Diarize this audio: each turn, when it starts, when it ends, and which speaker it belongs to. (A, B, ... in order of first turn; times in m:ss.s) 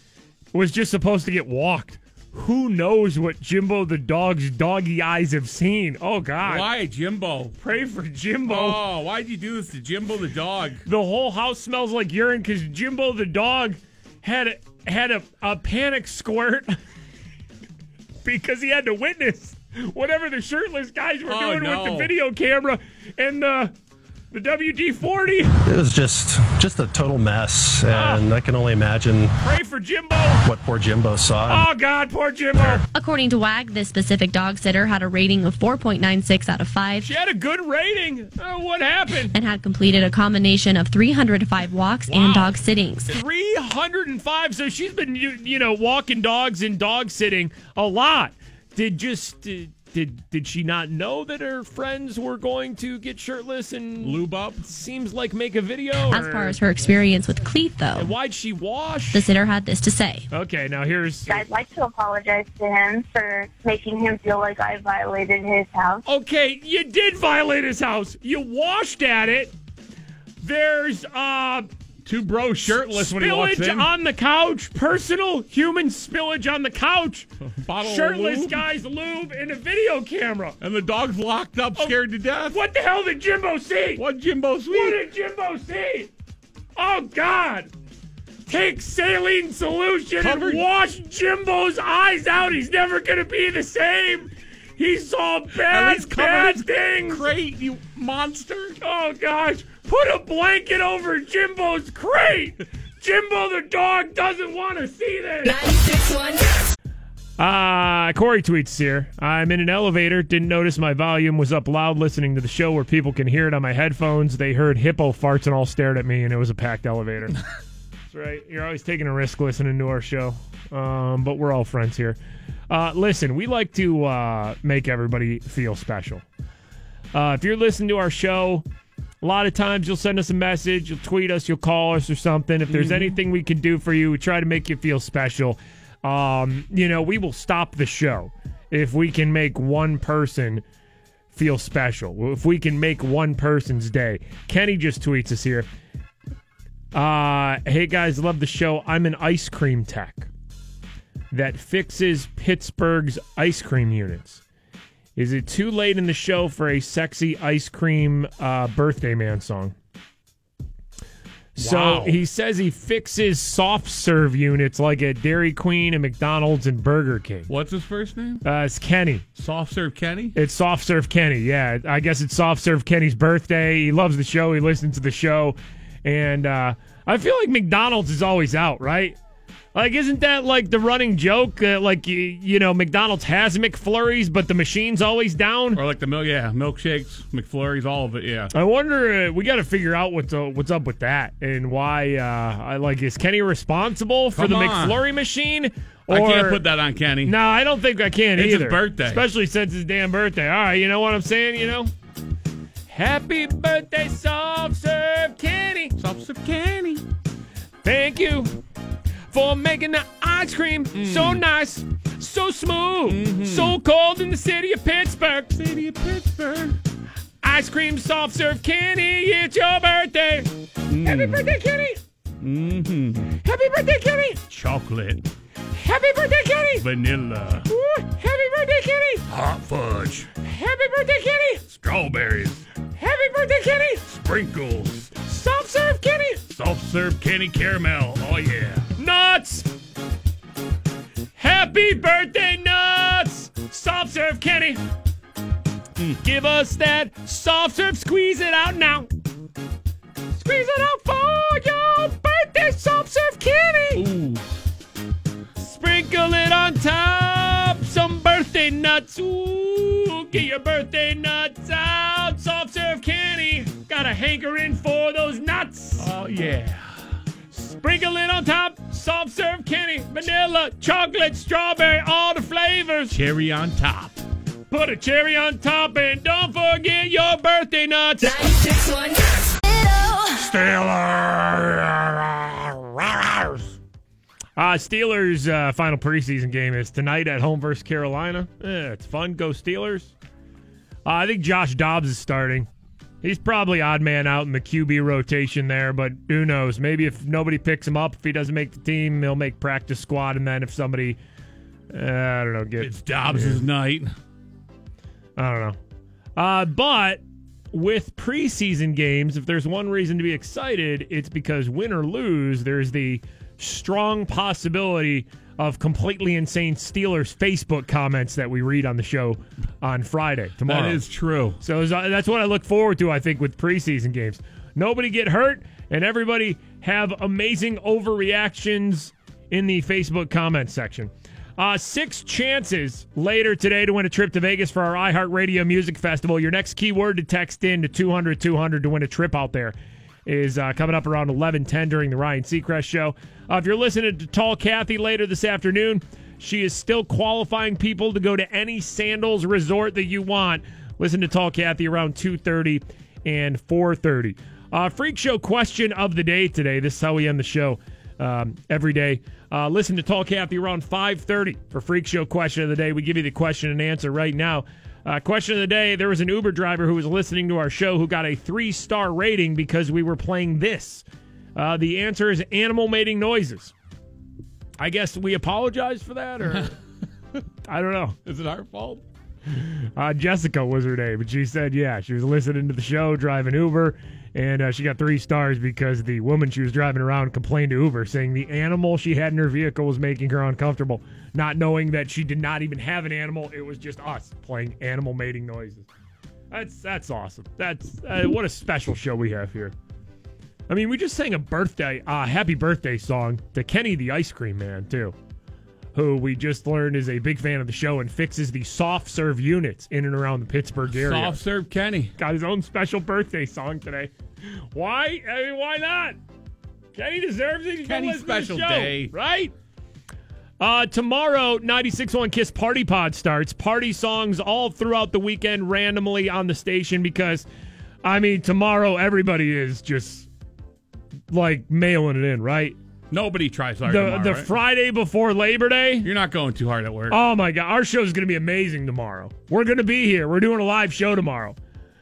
0:00.5-0:06.7 A
0:06.4-0:07.6 B
0:07.6-0:08.8 A
0:08.5-0:10.8 B
0:10.8-0:16.8 A
0:18.2-0:23.7 A
0:21.3-0:22.1 B
0:24.3-0:25.6 A
0:25.7-0:29.3 C
0:27.9-0:28.3 A
0:29.4-0:30.4 A
0:30.4-0:31.7 C
0:31.5-0:32.8 A
0:32.9-0:37.1 D
0:37.0-0:39.3 A
0:39.3-0:43.2 D
0:42.1-0:42.6 B
0:43.1-0:56.6 A
0:54.0-0:54.6 B
0:56.1-0:58.1 D
0:58.0-0:59.2 A
0:59.1-1:00.3 D
1:00.3-1:01.4 A
1:01.3-1:06.0 E
1:06.0-1:09.5 A
1:10.4-1:11.7 A
1:12.0-1:13.9 B
1:12.8-1:17.3 A
1:17.6-1:18.6 B
1:17.8-1:20.6 A
1:20.6-1:22.6 B
1:22.5-1:24.0 A
1:24.0-1:25.0 B
1:24.7-1:26.1 A
1:26.8-1:27.7 A
1:28.5-1:37.3 A
1:30.2-1:30.6 B
1:35.7-1:38.8 B
1:38.8-1:45.6 A
1:45.6-1:46.5 F
1:47.4-1:57.4 A
1:58.1-2:02.2 A
2:02.7-2:06.2 A
2:07.1-2:08.6 A
2:09.2-2:20.6 A
2:12.7-2:13.2 B
2:21.3-2:25.7 A
2:26.9-2:30.3 A
2:31.3-2:34.4 A
2:35.2-2:39.8 A
2:41.6-2:47.5 A
2:41.6-2:42.2 B
2:47.5-2:48.4 B
2:48.4-2:49.2 A
2:49.4-2:50.4 B
2:50.4-2:59.2 A
2:59.8-3:05.8 A
3:05.8-3:08.5 B
3:08.5-3:16.6 A
3:14.4-3:15.0 B
3:16.1-3:17.4 B
3:17.2-3:21.9 A
3:18.4-3:19.2 B
3:22.9-3:26.0 A
3:26.0-3:27.0 B
3:27.8-3:28.6 A
3:29.3-3:35.5 A
3:30.9-3:31.4 B
3:33.1-3:33.8 B
3:35.5-3:36.8 B
3:37.4-3:40.5 A
3:40.9-3:41.5 B
3:41.0-3:42.0 A
3:42.4-3:43.4 B
3:43.4-3:44.4 A
3:44.5-3:45.3 B
3:45.7-3:46.9 A
3:46.8-3:47.7 B
3:47.7-3:49.2 A
3:49.3-3:50.3 B
3:50.4-3:51.6 A
3:51.7-3:52.6 B
3:53.0-3:54.0 A
3:54.1-3:55.2 B
3:55.2-3:56.4 A
3:56.5-3:58.9 B
3:59.0-3:59.7 A
4:01.4-4:04.8 A
4:06.2-4:09.1 A
4:10.4-4:14.0 A
4:13.9-4:14.5 B
4:15.6-4:26.1 A
4:26.0-4:27.0 B
4:27.5-4:33.1 A
4:33.1-4:34.2 B
4:34.7-4:38.4 A
4:38.4-4:39.5 F
4:40.4-4:43.6 A
4:44.6-4:50.1 A
4:51.0-4:52.7 A
4:53.2-5:01.2 A
5:01.9-5:03.6 A
5:02.8-5:04.1 B
5:05.4-5:05.8 A
5:06.4-5:07.2 A
5:07.7-5:21.0 A
5:20.7-5:21.6 B
5:21.6-6:11.0 A
6:11.6-6:13.7 A
6:14.8-6:16.7 A
6:17.7-6:18.2 A
6:18.3-6:19.0 B
6:19.6-6:35.9 A
6:36.5-6:39.7 A
6:40.7-6:45.2 A
6:46.0-6:51.4 A
6:50.9-6:52.1 B
6:52.2-6:54.1 A
6:54.7-6:56.2 A
6:56.9-6:59.5 A
6:57.8-6:59.1 B
7:00.6-7:07.4 A
7:08.0-7:10.3 A
7:11.3-7:12.8 A
7:13.1-7:14.5 B
7:13.9-7:16.1 A
7:16.0-7:17.2 B
7:17.1-7:21.6 A